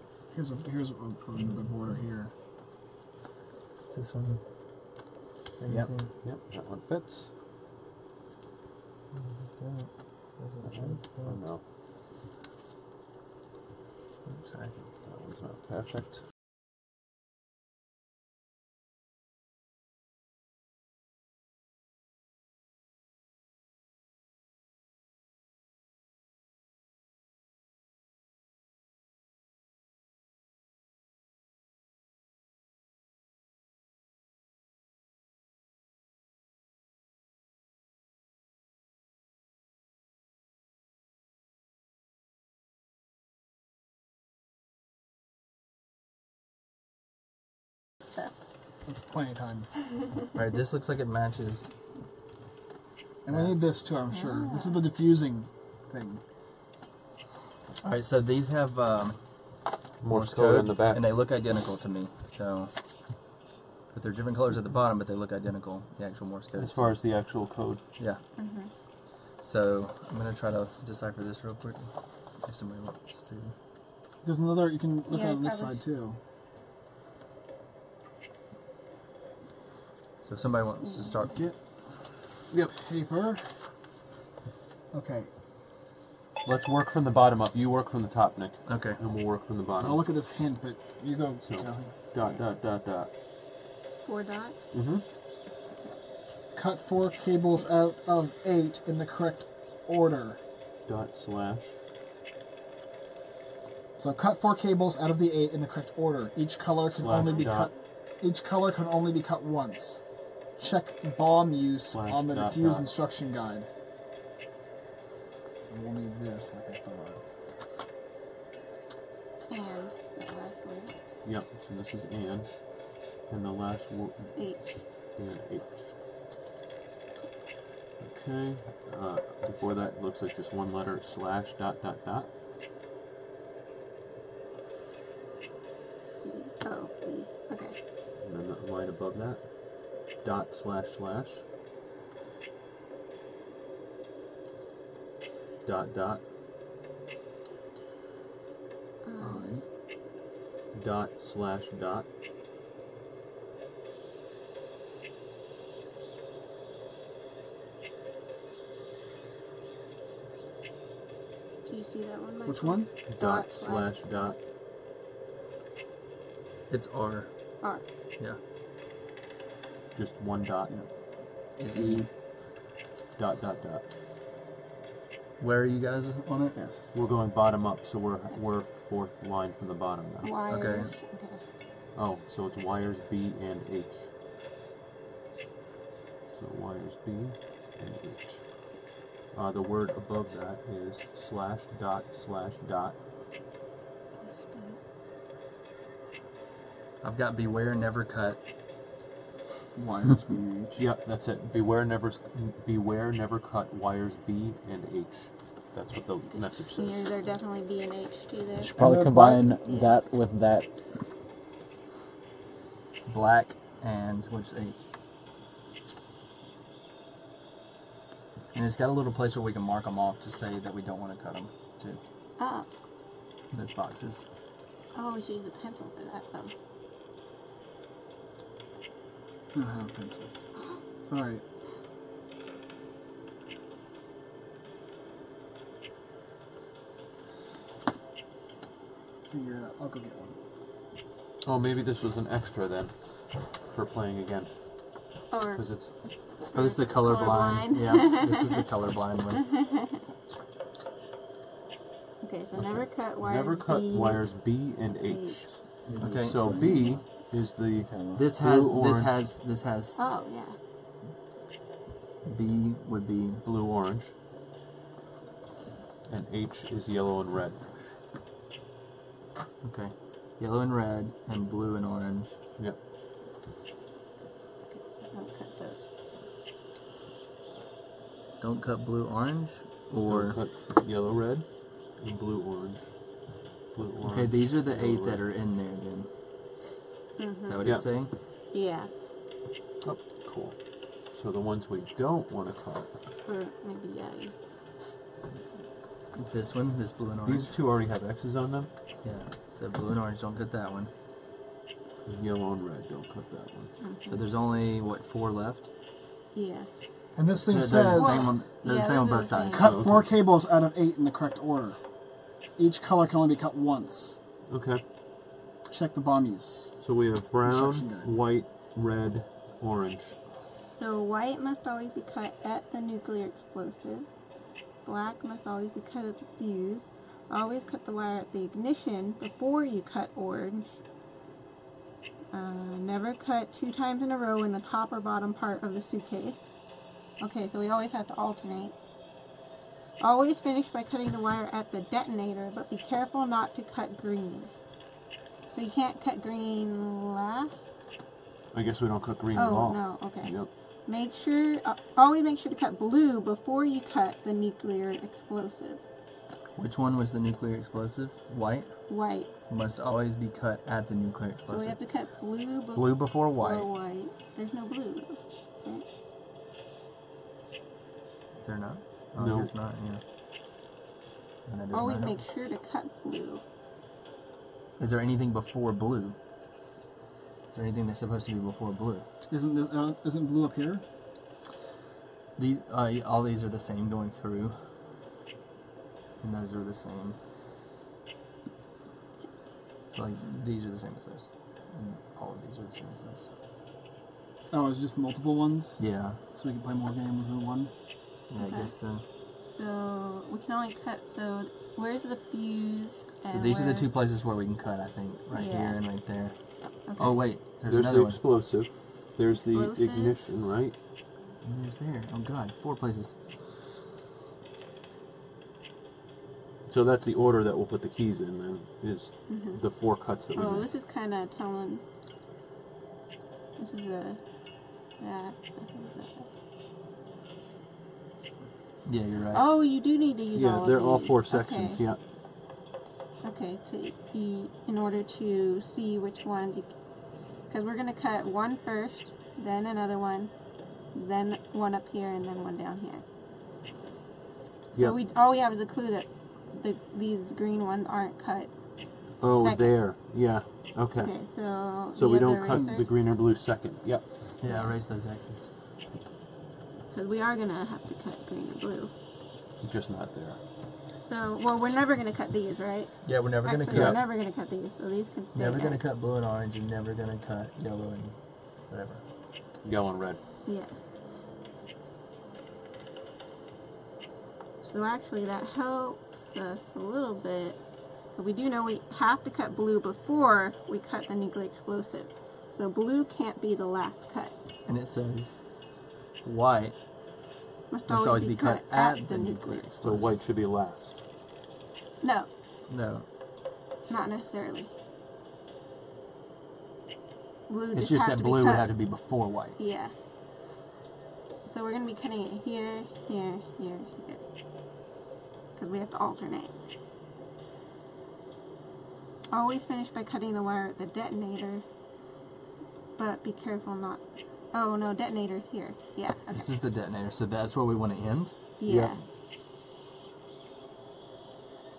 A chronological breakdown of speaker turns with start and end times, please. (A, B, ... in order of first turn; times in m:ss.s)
0:00.3-0:02.3 A
0:03.9-0:04.4 B
0:05.6-0:06.1 B
0:06.2-0:07.3 C
0:09.1-0:11.4 B
0:10.6-0:11.6 C
0:14.2-0:14.7 B
0:15.0-0:16.2 C
0:48.9-0:49.7 A
0:50.3-0:51.7 B
0:53.2-0:56.2 A
0:53.3-0:53.6 B
0:54.1-0:54.8 D
0:57.8-0:59.2 B
1:00.0-1:01.0 C
1:00.0-1:02.7 B
1:03.9-1:07.0 B
1:06.6-1:07.8 C
1:08.4-1:08.7 D
1:09.4-1:13.5 B
1:14.2-1:16.2 A
1:15.1-1:15.8 D
1:20.2-1:21.4 B
1:20.8-1:21.2 D
1:22.8-1:23.4 A
1:24.9-1:25.3 A
1:26.4-1:30.1 C
1:28.6-1:29.0 B
1:29.8-1:31.9 A
1:31.4-1:33.1 C
1:34.0-1:34.6 D
1:34.7-1:35.0 C
1:35.7-1:36.0 D
1:36.5-1:40.4 A
1:40.9-1:41.8 C
1:44.0-1:50.0 A
1:47.0-1:47.7 C
1:47.2-1:47.6 D
1:50.6-1:53.7 A
1:51.9-1:52.9 C
1:55.6-1:57.2 A
1:59.5-2:01.0 D
2:01.2-2:02.5 C
2:03.2-2:05.9 C
2:04.4-2:04.8 D
2:08.0-2:12.3 C
2:16.2-2:17.7 D
2:18.2-2:21.4 C
2:25.6-2:26.2 C
2:29.0-2:29.6 D
2:30.7-2:32.0 C
2:41.6-2:44.3 D
2:42.4-2:42.9 A
2:43.1-2:44.4 C
2:46.7-2:47.3 B
2:47.6-2:47.9 D
2:49.9-2:50.8 C
2:51.6-2:52.1 B
2:51.7-2:52.1 A
2:53.2-2:53.8 C
2:55.4-2:56.6 B
2:56.6-2:56.9 A
2:56.9-3:00.3 C
3:00.2-3:01.4 D
3:00.5-3:00.9 B
3:02.0-3:04.1 C
3:06.3-3:08.5 C
3:09.3-3:13.0 C
3:14.2-3:14.8 D
3:17.0-3:18.4 B
3:19.8-3:20.8 A
3:20.8-3:27.0 C
3:26.3-3:28.7 D
3:28.6-3:30.7 E
3:28.8-3:29.5 A
3:29.6-3:29.9 D
3:33.0-3:34.8 B
3:38.5-3:42.0 B
3:42.4-3:42.7 D
3:43.5-3:44.2 B
3:44.9-3:46.5 D
3:49.5-3:50.3 A
3:51.0-3:51.4 A
3:59.3-4:00.4 A
4:01.4-4:05.9 C
4:05.3-4:05.6 D
4:06.5-4:08.6 D
4:06.5-4:09.5 B
4:09.4-4:09.8 D
4:12.2-4:15.4 D
4:12.6-4:19.1 C
4:15.9-4:17.0 E
4:16.0-4:16.8 B
4:17.7-4:18.2 E
4:18.1-4:20.0 B
4:20.0-4:20.6 D
4:22.2-4:23.4 B
4:23.4-4:24.1 C
4:26.1-4:27.6 C
4:29.6-4:32.4 B
4:34.7-4:35.8 D
4:38.4-4:40.4 B
4:40.0-4:43.0 C
4:43.7-4:45.2 C
4:44.0-4:46.1 B
4:47.2-4:48.9 D
4:47.4-4:48.1 B
4:49.8-4:52.9 C
4:53.2-4:54.4 D
4:56.1-4:57.5 B
4:57.2-4:58.7 C
4:59.0-5:00.9 B
5:02.0-5:03.8 C
5:03.8-5:04.2 D
5:04.1-5:05.7 B
5:06.3-5:06.7 D
5:07.1-5:08.4 A
5:07.5-5:09.7 B
5:07.9-5:09.6 D
5:09.5-5:11.8 A
5:09.5-5:10.1 C
5:12.6-5:14.2 A
5:14.5-5:14.8 C
5:15.7-5:16.8 A
5:16.8-5:20.2 C
5:17.4-5:18.1 A
5:20.8-5:24.1 D
5:24.8-5:30.8 D
5:32.3-5:36.4 D
5:37.2-5:38.7 D
5:40.0-5:44.5 D
5:45.5-5:47.5 D
5:48.5-5:50.5 C
5:49.3-5:55.8 D
5:56.6-5:58.8 B
5:58.9-5:59.3 D
5:59.5-6:01.8 B
6:01.5-6:05.8 D
6:02.7-6:03.6 B
6:08.3-6:10.0 B
6:09.2-6:09.5 C
6:11.4-6:12.2 B
6:11.7-6:13.4 D
6:14.8-6:16.2 B
6:17.5-6:19.0 B
6:19.3-6:20.8 A
6:22.4-6:24.6 B
6:26.2-6:27.2 B
6:29.9-6:33.3 B
6:34.5-6:37.7 A
6:35.8-6:36.2 B
6:38.3-6:39.0 B
6:38.4-6:38.7 D
6:39.4-6:43.9 D
6:43.3-6:48.2 B
6:45.3-6:45.8 D
6:46.9-6:47.2 D
6:47.7-6:50.7 C
6:49.4-6:50.2 D
6:51.4-6:53.1 B
6:56.6-7:00.7 C
6:59.3-6:59.6 D
7:00.3-7:01.8 D
7:03.6-7:04.2 D
7:05.0-7:06.3 D
7:08.8-7:09.4 B
7:09.3-7:11.8 D
7:10.3-7:12.0 C
7:13.2-7:16.7 D
7:17.4-7:20.3 D
7:20.9-7:23.0 D
7:24.7-7:28.5 D
7:29.2-7:34.0 C
7:29.3-7:29.8 D
7:31.0-7:32.9 D
7:32.5-7:32.7 A
7:34.4-7:35.5 B
7:34.4-7:34.7 D
7:36.9-7:38.9 D
7:39.6-7:40.4 C
7:41.0-7:45.8 D
7:43.0-7:44.0 B
7:43.7-7:44.0 C
7:45.3-7:48.2 B
7:48.7-7:49.0 B
7:49.6-7:50.2 C
7:54.6-7:57.6 D
7:58.2-8:04.3 D
8:04.6-8:05.4 B
8:06.2-8:06.8 B
8:07.7-8:09.6 D
8:07.9-8:10.1 B
8:09.8-8:11.0 C
8:12.0-8:12.3 D
8:12.7-8:13.0 B
8:13.9-8:14.7 D
8:17.5-8:18.7 D
8:17.7-8:19.6 B
8:19.6-8:19.9 D
8:21.5-8:24.2 D
8:25.6-8:26.6 D
8:29.3-8:31.6 D
8:33.0-8:36.5 D
8:36.3-8:38.3 B
8:38.6-8:39.0 D
8:38.6-8:38.9 C